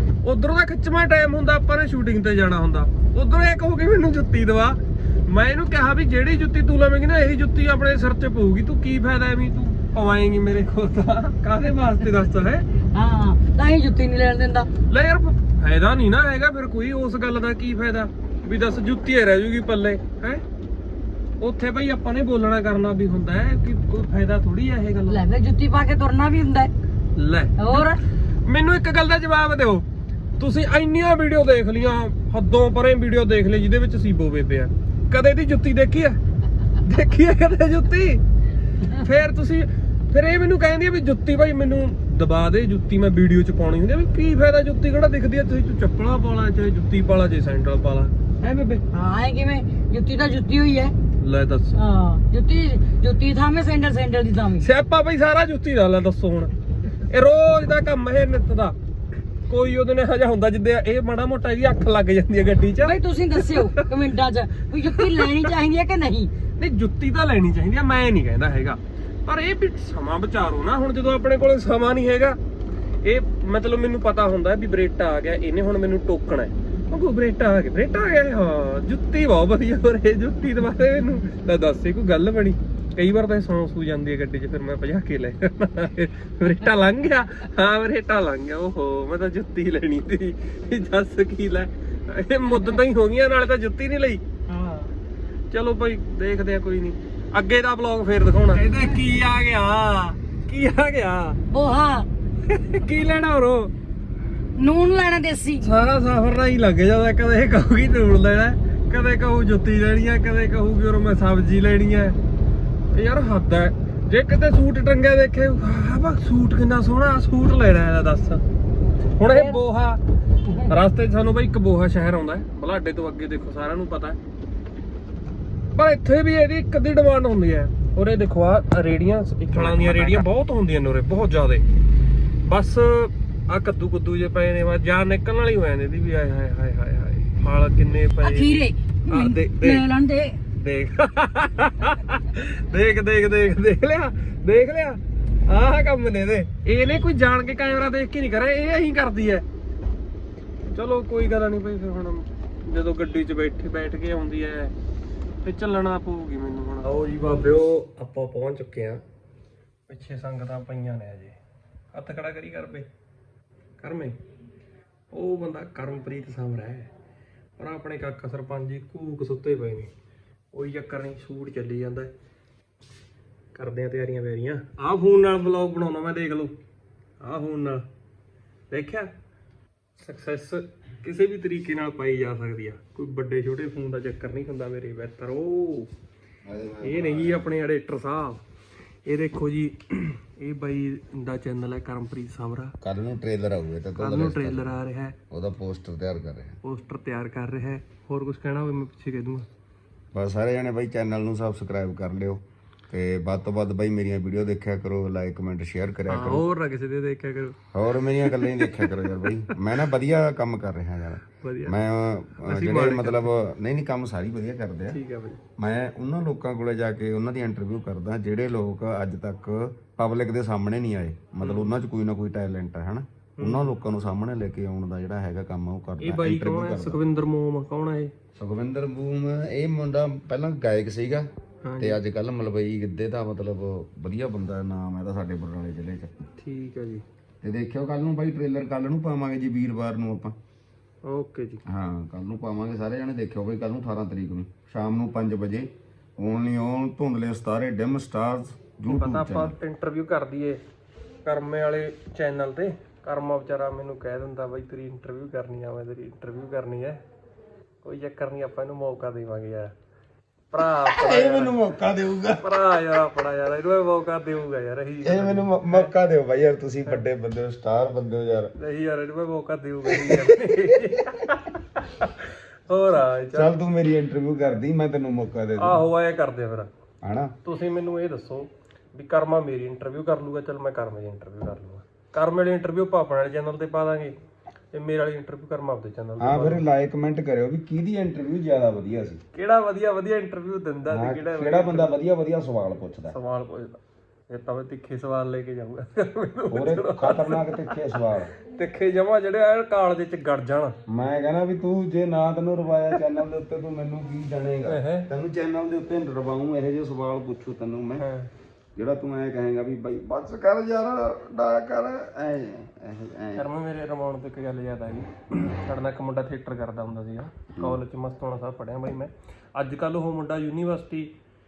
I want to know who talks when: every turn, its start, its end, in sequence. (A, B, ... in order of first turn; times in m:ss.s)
0:00.2-0:12.7 A
0:12.9-0:14.7 B
0:14.9-0:20.4 A
0:21.4-0:25.2 A
0:25.1-0:26.7 B
0:27.2-0:29.9 A
0:27.6-0:28.0 B
0:30.4-0:36.2 A
0:36.7-0:38.2 A
0:38.8-0:48.8 A
0:48.9-0:50.9 B
0:51.2-0:51.8 A
0:51.7-0:54.7 B
0:54.6-0:58.8 A
0:59.5-1:03.9 A
1:02.8-1:06.3 B
1:04.8-1:05.5 A
1:06.6-1:12.4 A
1:13.0-1:34.2 A
1:34.5-1:34.9 B
1:35.5-1:41.4 A
1:41.5-1:42.1 B
1:42.4-1:43.7 A
1:44.6-1:45.8 B
1:45.6-1:52.2 A
1:52.9-1:58.4 A
1:59.1-2:00.0 A
1:59.2-1:59.6 B
2:00.4-2:00.8 B
2:00.6-2:04.2 A
2:05.8-2:11.6 A
2:09.6-2:10.2 C
2:12.4-2:19.9 A
2:18.2-2:20.4 B
2:20.6-2:29.5 A
2:30.7-2:34.7 A
2:35.4-2:39.0 A
2:39.9-2:41.4 A
2:41.9-2:42.9 A
2:43.8-2:44.2 A
2:45.1-2:46.9 A
2:47.6-2:49.9 A
2:50.5-2:52.1 A
2:53.5-2:56.6 A
2:57.2-2:57.9 A
2:58.7-2:59.1 A
3:00.0-3:05.9 A
3:06.4-3:07.5 C
3:06.8-3:08.4 A
3:09.0-3:12.8 A
3:12.8-3:16.6 C
3:14.0-3:15.2 A
3:16.6-3:19.5 A
3:20.1-3:26.5 C
3:26.1-3:29.8 A
3:27.7-3:35.0 C
3:31.4-3:31.8 A
3:32.4-3:33.3 A
3:34.9-3:35.4 A
3:35.6-3:47.0 C
3:41.4-3:41.8 A
3:43.4-3:43.7 A
3:46.0-3:48.1 A
3:48.4-3:56.1 C
3:51.6-3:52.0 A
3:56.4-3:57.0 A
3:57.4-4:00.4 C
4:01.0-4:01.6 A
4:01.7-4:09.6 C
4:08.9-4:10.6 A
4:11.2-4:17.0 A
4:17.8-4:19.7 A
4:20.5-4:21.6 A
4:20.8-4:23.0 C
4:22.4-4:25.9 A
4:25.0-4:28.5 C
4:28.6-4:33.6 A
4:29.9-4:31.0 C
4:33.3-4:35.8 C
4:35.6-4:36.7 A
4:37.0-4:37.4 C
4:37.4-4:44.2 A
4:44.7-4:46.6 A
4:46.2-4:49.2 C
4:49.3-4:52.0 A
4:50.9-4:53.2 C
4:53.1-5:00.8 A
4:56.5-4:58.3 C
5:00.9-5:08.1 C
5:04.6-5:05.1 A
5:08.0-5:08.3 A
5:08.8-5:13.5 C
5:13.4-5:21.1 A
5:17.5-5:17.8 C